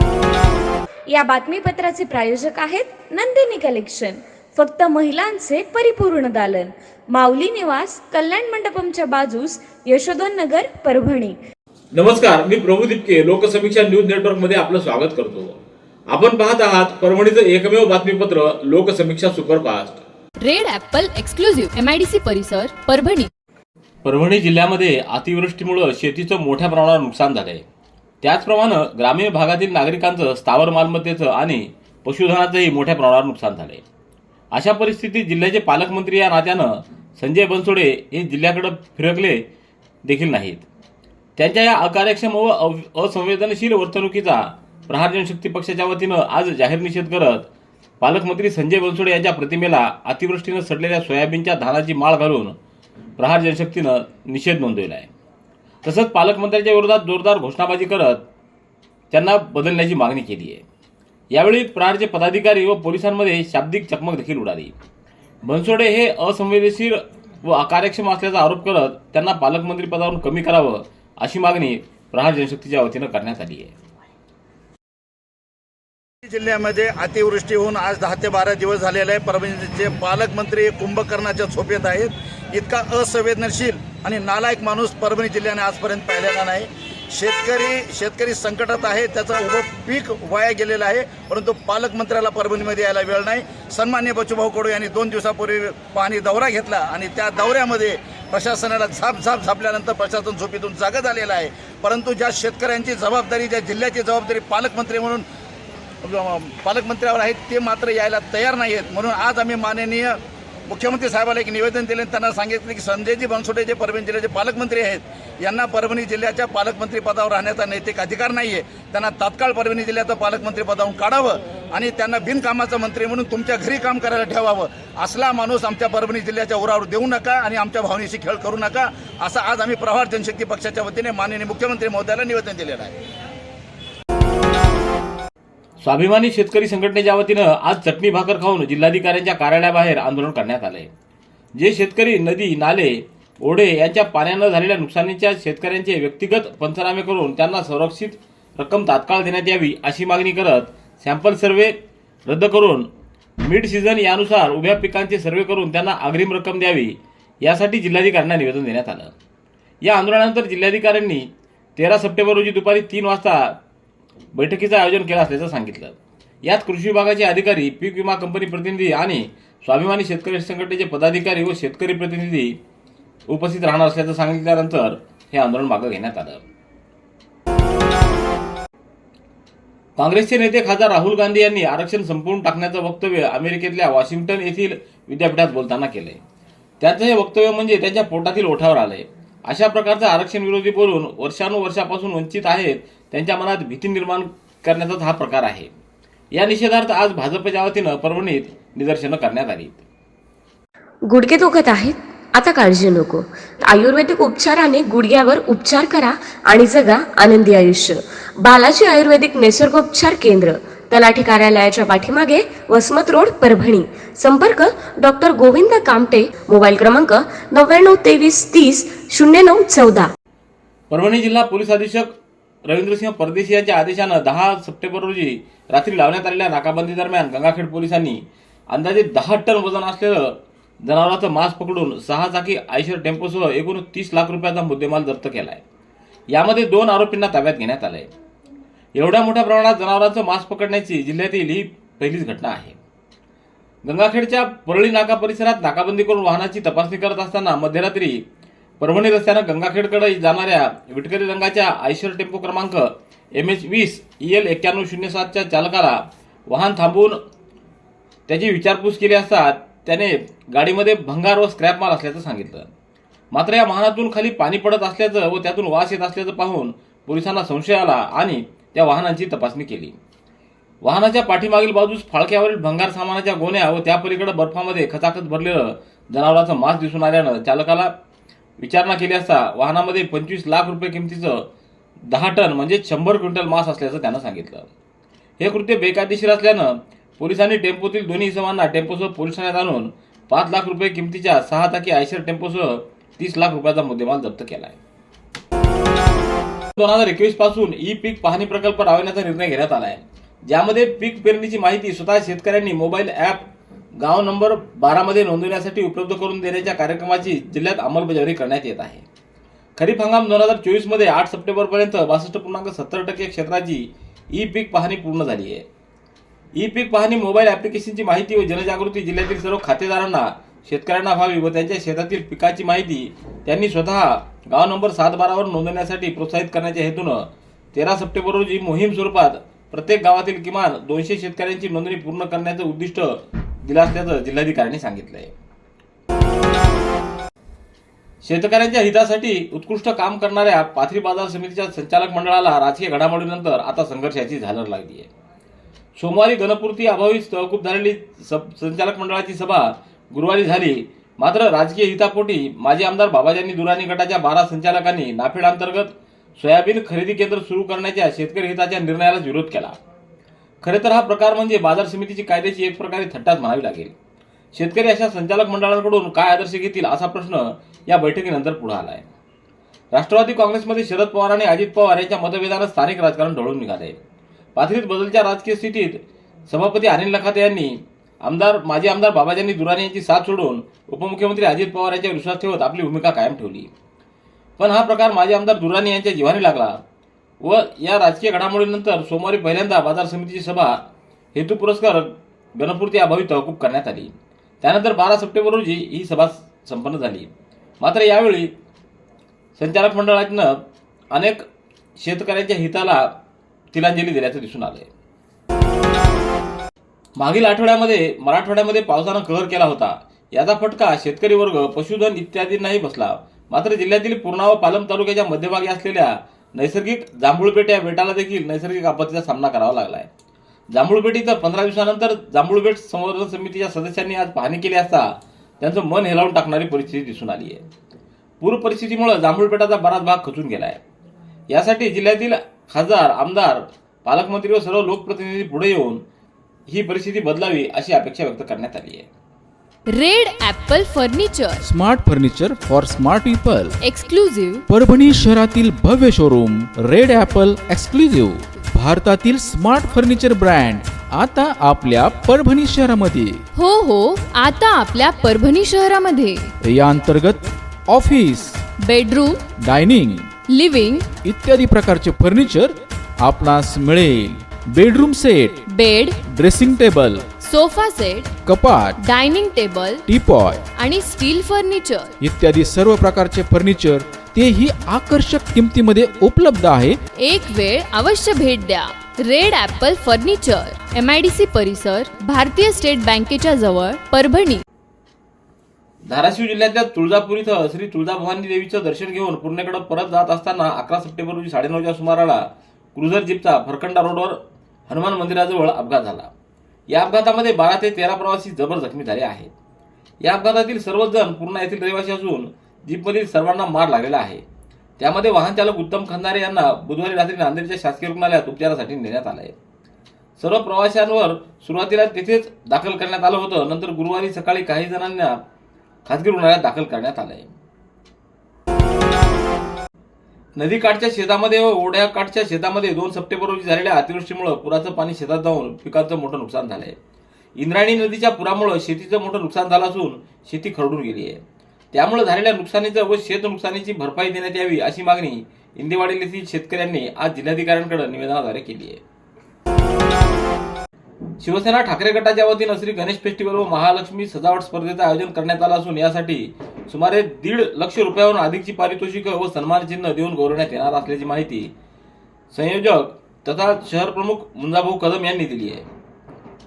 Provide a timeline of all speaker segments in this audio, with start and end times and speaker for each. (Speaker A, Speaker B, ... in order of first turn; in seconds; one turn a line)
Speaker A: 1.1-11.4
Speaker B: 11.9-15.6
Speaker B: 16.1-20.0
Speaker C: 20.4-23.3
Speaker B: 24.0-27.6
Speaker B: 28.2-33.8
Speaker B: 34.5-39.5
Speaker B: 40.0-40.7
Speaker B: 41.4-47.5
Speaker B: 48.0-52.6
Speaker B: 53.2-55.1
Speaker B: 55.8-58.3
Speaker B: 59.1-60.6
Speaker B: 61.3-64.8
Speaker B: 65.4-73.8
Speaker D: 76.3-105.2
Speaker D: 106.0-133.0
Speaker B: 135.8-140.9
Speaker B: 141.6-159.1
Speaker B: 159.8-163.6
Speaker B: 164.3-172.6
Speaker B: 173.3-176.4
Speaker B: 180.0-186.2
Speaker B: 186.8-195.7
Speaker B: 196.3-199.8
Speaker E: 201.1-220.1
Speaker B: 220.9-235.6
Speaker B: 236.3-238.1
Speaker B: 238.9-242.8
Speaker B: 243.8-248.2
Speaker B: 248.8-257.2
Speaker B: 258.3-262.7
Speaker B: 263.3-270.0
Speaker B: 270.8-277.9
Speaker B: 278.6-281.5
Speaker B: 282.1-284.7
Speaker B: 285.4-294.8
Speaker B: 296.8-309.1
Speaker B: 309.8-315.7
Speaker B: 316.6-335.3
Speaker B: 338.2-345.1
Speaker B: 346.0-359.8
Speaker B: 360.6-363.9
Speaker B: 364.5-369.1
Speaker B: 369.9-374.0
Speaker B: 374.6-383.7
Speaker B: 384.6-386.8
Speaker B: 387.4-390.8
Speaker B: 391.3-398.5
Speaker B: 399.6-401.4
Speaker B: 402.0-403.2
Speaker B: 403.7-404.9
Speaker B: 407.2-420.1
Speaker B: 420.7-427.6
Speaker B: 428.4-430.8
Speaker B: 431.5-436.0
Speaker B: 436.7-439.1
Speaker C: 439.9-441.6
Speaker F: 441.6-443.8
Speaker C: 443.8-444.6
Speaker F: 444.7-453.4
Speaker C: 453.6-456.5
Speaker F: 456.6-458.6
Speaker C: 458.8-459.4
Speaker F: 459.6-460.3
Speaker C: 460.5-461.1
Speaker F: 461.2-465.6
Speaker C: 465.7-466.2
Speaker F: 466.2-467.3
Speaker C: 467.4-468.3
Speaker F: 468.4-469.0
Speaker C: 469.0-470.1
Speaker F: 470.1-470.6
Speaker C: 470.8-472.1
Speaker F: 472.2-477.0
Speaker C: 477.2-484.6
Speaker B: 486.1-496.3
Speaker B: 496.9-499.5
Speaker B: 500.2-504.4
Speaker B: 505.0-509.6
Speaker B: 510.4-515.4
Speaker B: 516.0-517.5
Speaker B: 520.6-527.0
Speaker B: 527.6-531.4
Speaker B: 531.9-539.0
Speaker B: 541.4-551.7
Speaker B: 552.5-555.9